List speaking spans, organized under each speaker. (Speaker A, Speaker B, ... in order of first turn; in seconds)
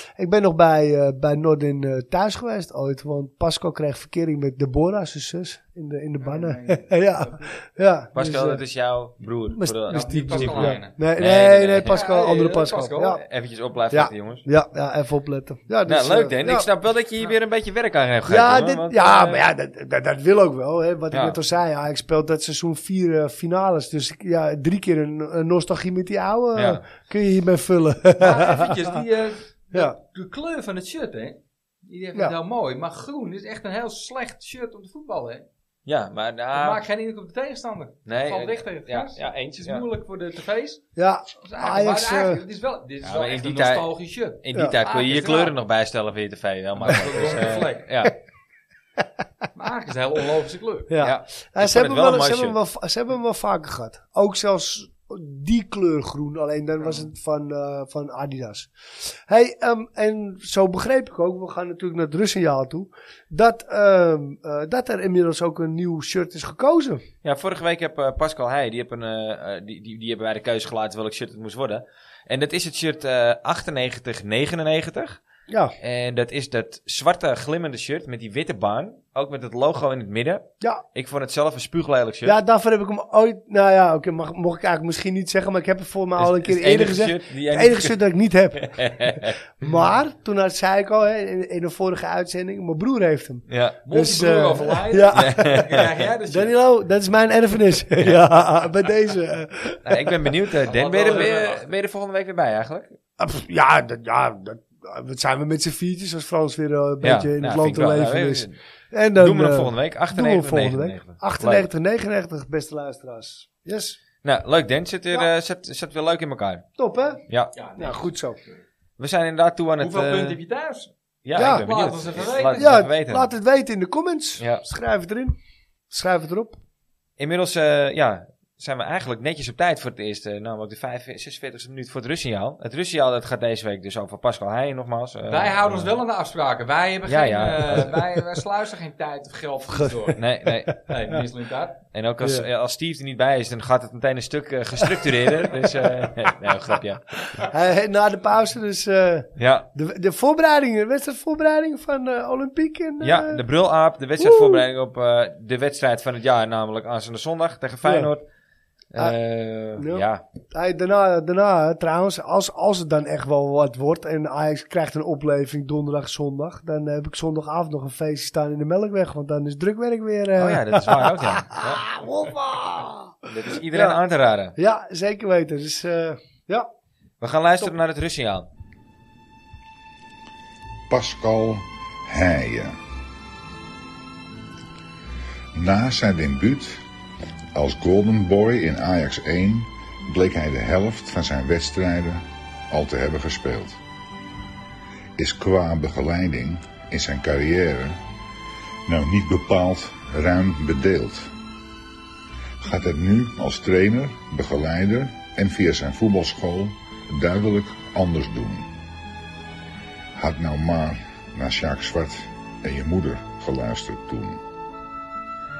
Speaker A: 0.1-8.6, 9.5-13.2, 13.9-16.7, 18.2-29.0, 41.0-42.4, 50.9-67.0, 75.5-75.7, 82.2-100.3, 103.2-114.0, 116.8-117.2, 117.8-118.4, 121.3-121.6, 122.5-125.3, 125.9-126.6, 142.2-142.5, 144.8-146.1, 147.3-153.4, 154.2-154.6, 157.8-158.1, 159.8-174.0, 174.6-176.7
Speaker B: 6.2-7.5, 9.9-11.0, 11.8-13.2, 28.2-35.5, 36.5-40.9, 41.4-45.5, 46.8-47.9, 49.5-50.9, 56.8-57.1, 93.9-96.5, 100.6-101.7, 117.5-118.1, 119.8-122.7, 135.3-141.8
Speaker C: 8.1-12.0, 13.2-14.4, 15.8-19.4, 21.1-21.4, 26.5-26.8, 35.9-36.8, 38.0-39.9, 43.0-48.1, 51.0-52.5, 67.2-75.2, 75.8-82.4, 86.2-88.0, 88.6-89.4, 93.5-93.8, 95.1-95.9, 99.8-102.9, 107.0-108.6, 109.2-111.7, 114.2-116.7, 117.3-117.5, 119.0-120.4, 121.2-123.3, 124.4-124.6, 127.2-135.9, 137.1-137.9, 140.2-140.8, 141.9-147.0, 149.4-149.7, 153.0-158.2, 158.9-160.2, 170.4-171.8, 173.3-174.5, 177.2-178.5
Speaker D: 180.9-182.8, 185.5-186.8, 187.5-193.8, 195.2-198.0, 198.9-201.3, 202.6-208.7, 210.2-214.4